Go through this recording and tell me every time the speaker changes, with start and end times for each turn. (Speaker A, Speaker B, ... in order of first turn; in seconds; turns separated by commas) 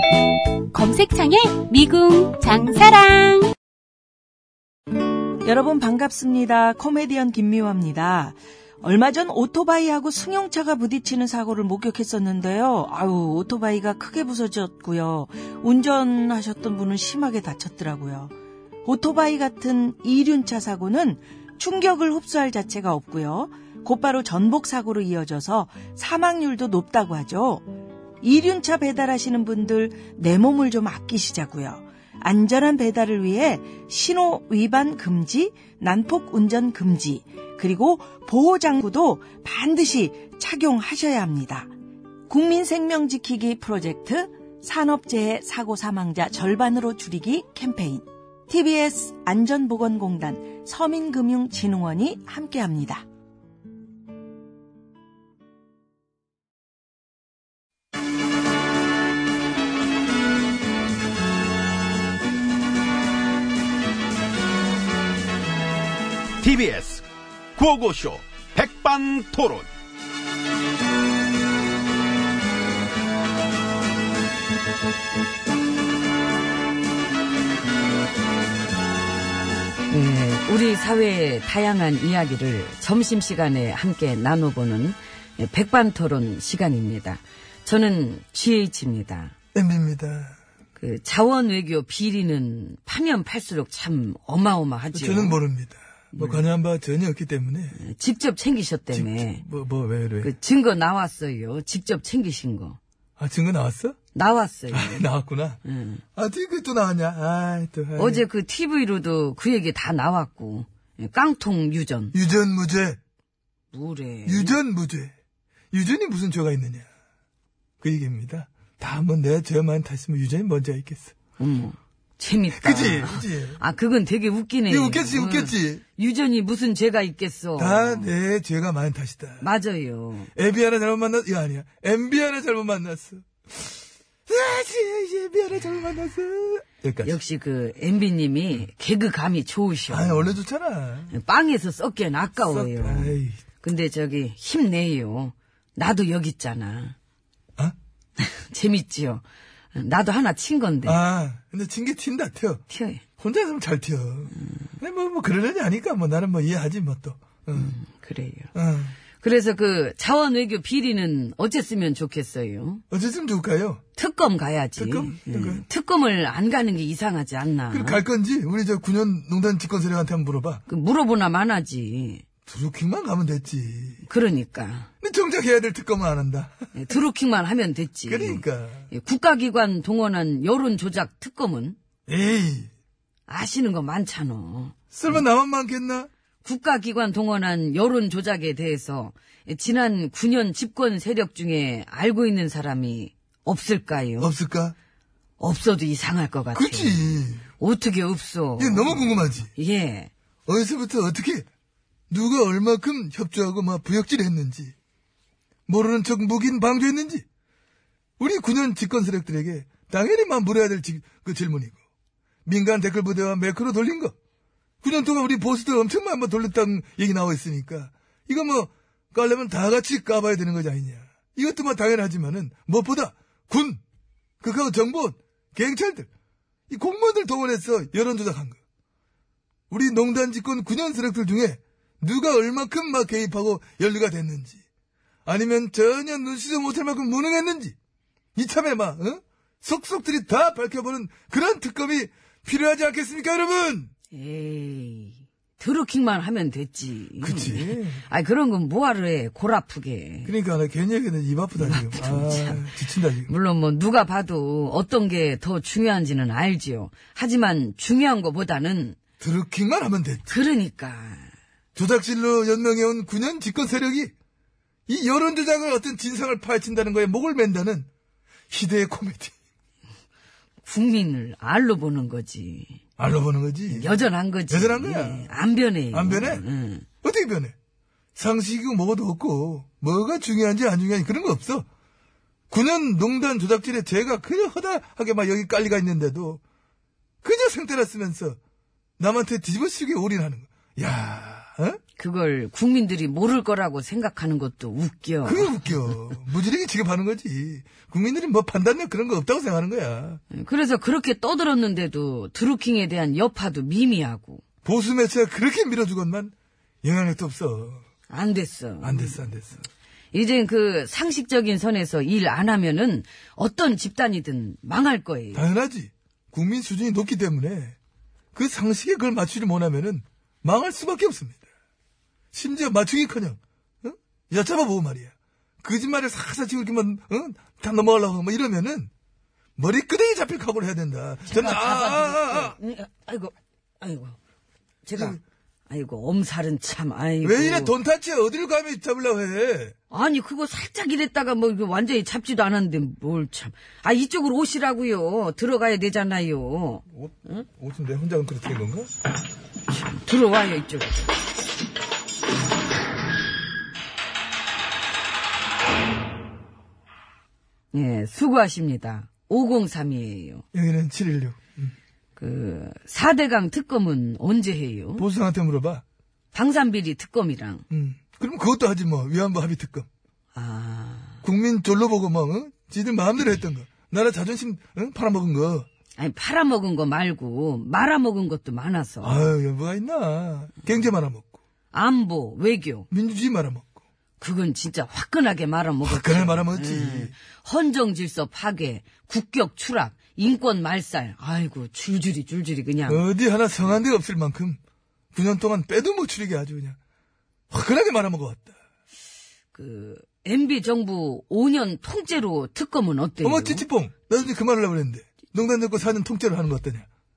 Speaker A: 0.7-3.5, Speaker B: 5.4-18.3, Speaker B: 18.9-27.7, Speaker B: 28.2-41.7, Speaker B: 42.3-53.0, Speaker C: 66.4-67.0, Speaker C: 67.6-69.7, Speaker D: 79.9-89.3, Speaker E: 89.5-90.3, Speaker D: 90.8-95.4, Speaker E: 94.9-97.8, Speaker D: 96.2-96.4, Speaker D: 97.8-99.4, Speaker E: 98.9-100.3, Speaker D: 100.2-102.8, Speaker E: 103.2-104.0, Speaker D: 104.1-105.0, Speaker E: 104.7-105.6, Speaker D: 105.6-106.0, Speaker E: 106.2-108.2, Speaker D: 108.0-112.2, Speaker E: 112.1-113.0, Speaker D: 113.7-114.6, Speaker E: 114.2-115.1, Speaker E: 115.7-116.9, Speaker E: 117.8-121.1, Speaker D: 121.4-128.1, Speaker E: 122.5-123.6, Speaker E: 124.7-125.8, Speaker E: 127.6-129.5, Speaker D: 129.4-130.3, Speaker E: 130.3-137.2, Speaker D: 137.0-140.4, Speaker E: 139.9-141.1, Speaker D: 141.1-146.9, Speaker E: 142.4-143.4, Speaker D: 148.2-149.2, Speaker D: 149.7-151.0, Speaker E: 150.8-152.6, Speaker D: 152.7-153.0, Speaker E: 153.2-157.8, Speaker D: 157.5-158.5, Speaker E: 158.5-159.0, Speaker D: 159.2-162.8, Speaker E: 162.9-163.8, Speaker D: 164.0-168.0, Speaker E: 164.8-165.7, Speaker E: 167.7-170.6, Speaker D: 170.7-172.2, Speaker E: 172.5-174.0, Speaker D: 174.0-174.9, Speaker E: 175.0-176.6, Speaker D: 176.8-181.8, Speaker E: 178.1-178.9, Speaker E: 182.1-182.7, Speaker D: 183.3-185.2, Speaker E: 184.9-186.1, Speaker D: 186.4-194.3, Speaker E: 194.2-194.8, Speaker D: 195.4-200.1, Speaker E: 196.5-197.4, Speaker E: 198.6-199.5, Speaker E: 200.5-201.4, Speaker E: 202.1-204.7, Speaker E: 205.7-207.2, Speaker E: 208.2-211.8, Speaker E: 212.5-214.1, Speaker E: 214.8-223.8, Speaker E: 224.4-226.1, Speaker E: 226.7-228.6, Speaker E: 229.7-234.6, Speaker E: 235.3-237.8, Speaker E: 238.4-243.9, Speaker D: 244.1-250.3, Speaker E: 247.2-248.0, Speaker E: 250.3-253.3, Speaker D: 251.6-252.7, Speaker D: 253.3-259.0, Speaker E: 259.2-260.3, Speaker D: 260.3-261.3, Speaker E: 261.8-264.1, Speaker E: 264.9-267.9, Speaker E: 268.5-269.3, Speaker D: 270.6-272.8, Speaker E: 273.0-275.3, Speaker D: 273.7-276.9, Speaker E: 275.9-276.4, Speaker E: 277.0-277.5, Speaker E: 278.2-281.7, Speaker E: 282.5-286.4, Speaker E: 287.2-288.4, Speaker E: 289.0-291.8, Speaker D: 292.0-295.8, Speaker E: 295.2-300.2, Speaker D: 300.3-304.4, Speaker E: 304.6-307.8, Speaker D: 308.1-309.2, Speaker E: 308.8-309.6, Speaker D: 310.1-315.5, Speaker E: 315.3-317.8, Speaker E: 318.3-321.4, Speaker E: 322.3-328.9, Speaker E: 329.6-332.6, Speaker D: 331.3-334.2, Speaker D: 334.9-337.8, Speaker E: 337.2-339.7, Speaker D: 339.9-346.9, Speaker E: 346.9-348.9, Speaker D: 349.7-351.1, Speaker D: 357.7-360.4, Speaker E: 360.5-361.7, Speaker D: 362.2-365.1, Speaker E: 365.0-365.8, Speaker D: 366.3-367.6, Speaker E: 367.7-369.9, Speaker D: 370.3-371.2, Speaker E: 371.2-375.7, Speaker D: 376.0-379.3, Speaker E: 379.0-381.4, Speaker D: 381.7-382.9, Speaker E: 382.9-383.6, Speaker D: 384.2-393.1, Speaker E: 385.8-387.1, Speaker E: 392.9-394.6, Speaker E: 395.1-396.8, Speaker E: 397.5-398.6, Speaker D: 399.5-403.7, Speaker E: 403.2-406.9